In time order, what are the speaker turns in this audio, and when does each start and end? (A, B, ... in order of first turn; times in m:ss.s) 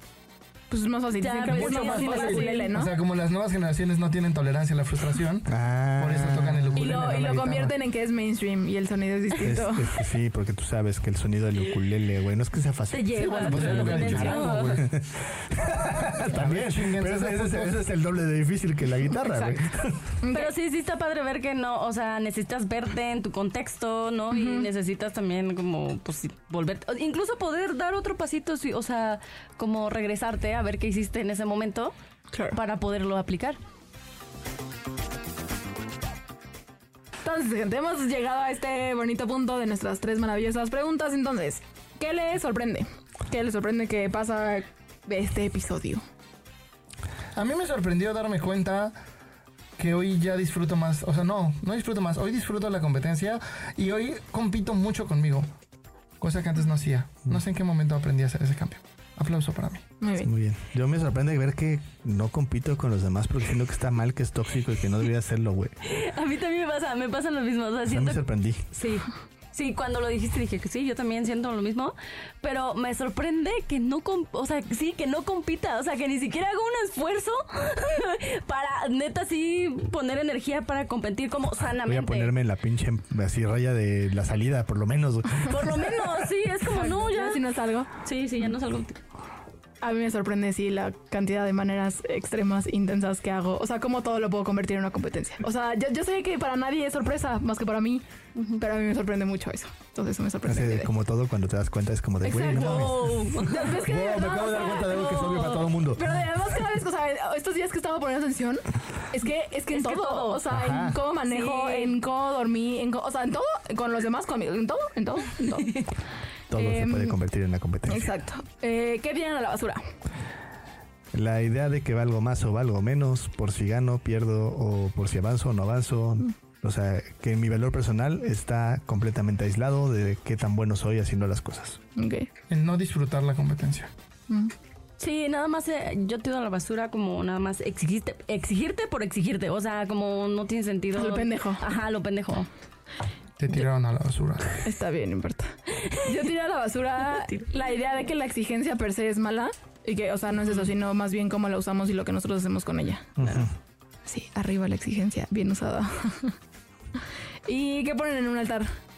0:00.7-0:02.9 A
0:01.2-0:02.8 B
0:01.5-0:07.7 C
0:05.5-0:07.0 D
0:06.8-0:09.9 A
0:09.4-0:20.2 D
0:12.9-0:14.8 B
0:13.1-0:14.9 C
0:15.8-0:17.8 C
0:19.2-0:19.6 A
0:20.2-0:20.5 A
0:20.3-0:31.9 B
0:24.3-0:24.7 A
0:32.3-0:32.6 A
0:32.5-0:33.6 B
0:37.2-0:46.0 A
0:47.4-0:49.0 C
0:49.8-0:55.5 C
0:56.2-0:59.9 C
1:00.0-1:00.3 A
1:00.2-1:05.8 D
1:05.8-1:22.3 B
1:07.9-1:08.7 D
1:21.8-1:26.3 D
1:25.4-1:29.0 B
1:26.7-1:27.9 A
1:29.8-1:38.0 A
1:38.4-1:38.6 B
1:38.6-1:40.9 A
1:40.5-1:46.2 D
1:42.2-1:43.8 B
1:42.3-1:55.8 A
1:44.8-1:45.5 B
1:49.7-1:50.4 B
1:50.5-1:51.0 D
1:51.3-1:52.0 B
1:55.5-1:55.9 B
1:56.5-1:58.2 D
1:56.6-1:57.2 A
1:57.9-1:59.9 A
2:01.1-2:11.8 D
2:12.0-2:12.3 A
2:12.5-2:13.9 C
2:15.0-2:22.5 B
2:21.0-2:21.6 A
2:23.4-2:24.6 C
2:24.6-2:33.5 A
2:33.2-2:33.5 D
2:34.1-2:36.4 A
2:37.5-2:38.7 A